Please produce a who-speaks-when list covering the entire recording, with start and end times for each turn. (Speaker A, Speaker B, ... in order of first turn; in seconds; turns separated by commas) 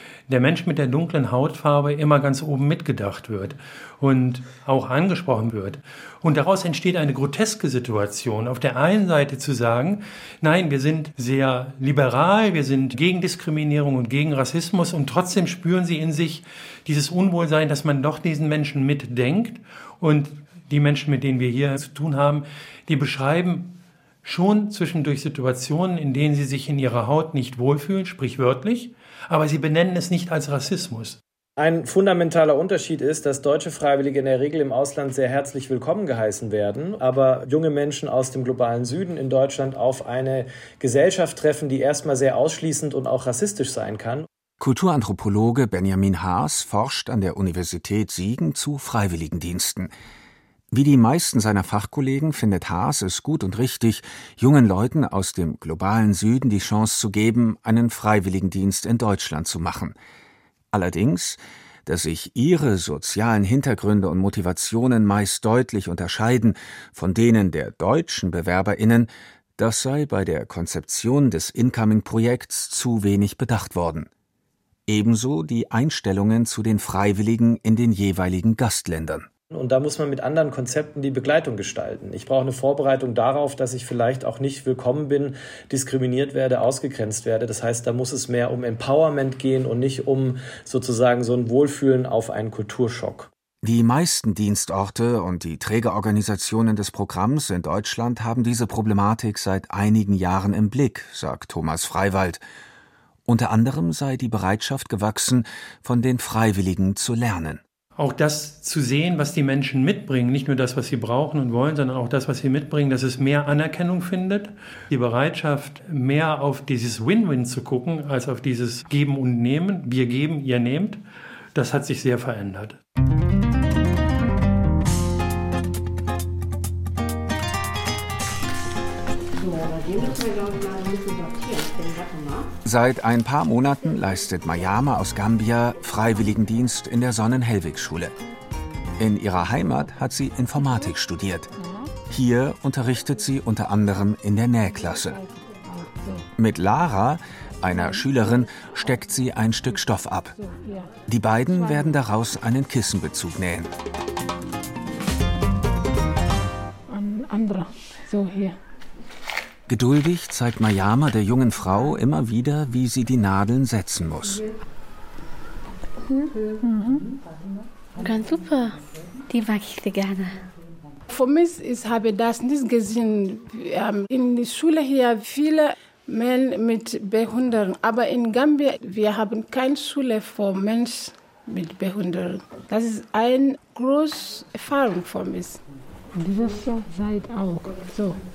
Speaker A: 0.3-31.2, Speaker B: 31.6-44.2, Speaker C: 44.6-49.9, Speaker C: 50.7-60.0, Speaker C: 60.7-74.1, Speaker C: 74.9-79.3, Speaker B: 79.5-93.3, Speaker C: 93.6-102.4, Speaker C: 103.2-107.6, Speaker A: 108.0-121.0, Speaker A: 121.5-122.8, Speaker D: 129.4-132.5, Speaker C: 132.6-138.1, Speaker C: 139.0-141.5, Speaker E: 141.6-141.9, Speaker C: 142.1-145.2, Speaker E: 145.1-146.2, Speaker C: 146.3-150.3, Speaker E: 147.7-148.1, Speaker E: 150.4-150.9, Speaker C: 151.1-153.7, Speaker E: 151.5-151.9, Speaker E: 156.9-158.6, Speaker C: 159.7-164.4, Speaker E: 166.6-167.1, Speaker D: 168.0-168.8, Speaker D: 169.3-170.4, Speaker E: 171.1-185.6, Speaker E: 186.2-188.2